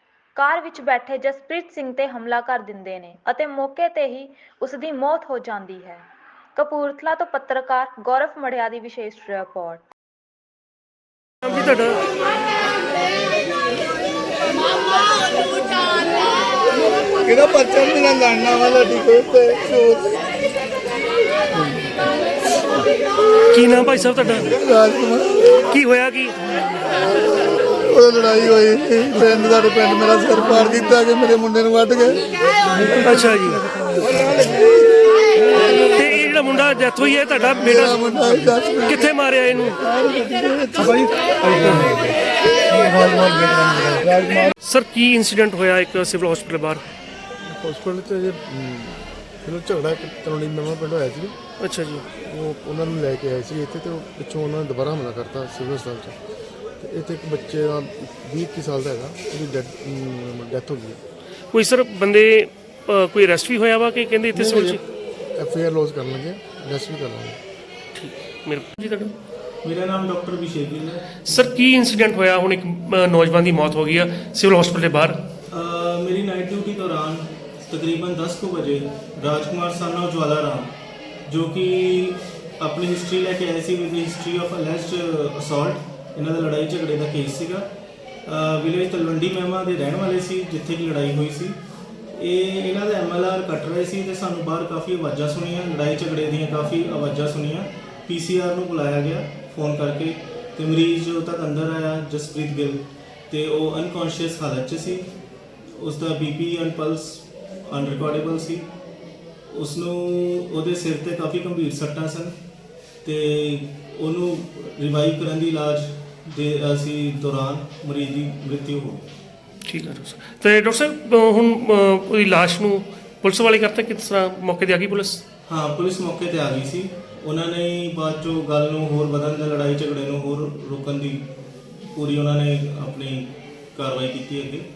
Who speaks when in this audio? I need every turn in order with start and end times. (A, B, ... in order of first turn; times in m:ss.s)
0:00.3-0:09.8 A
0:11.4-0:12.0 B
0:17.2-0:20.2 C
0:21.6-0:22.0 D
0:23.5-0:24.6 B
0:24.6-0:25.3 C
0:25.7-0:26.4 B
0:27.8-0:32.2 C
0:28.0-0:30.8 D
0:31.4-0:32.0 D
0:32.8-0:33.6 B
0:33.7-0:34.4 D
0:35.5-0:39.8 B
0:37.9-0:38.9 D
0:39.8-0:42.1 D
0:42.7-0:44.1 D
0:44.3-0:46.8 B
0:47.4-0:51.4 D
0:51.6-0:52.1 B
0:52.2-0:56.2 D
0:56.8-1:01.0 D
1:01.5-1:04.8 B
1:04.3-1:04.8 D
1:05.4-1:07.4 D
1:07.9-1:09.1 B
1:09.6-1:11.3 E
1:11.2-1:15.2 B
1:15.5-1:27.7 E
1:28.2-1:31.6 E
1:32.1-1:45.1 E
1:45.7-1:48.7 E
1:49.5-1:52.4 E
1:53.0-1:59.1 E
1:59.6-2:05.2 B
2:05.5-2:14.7 E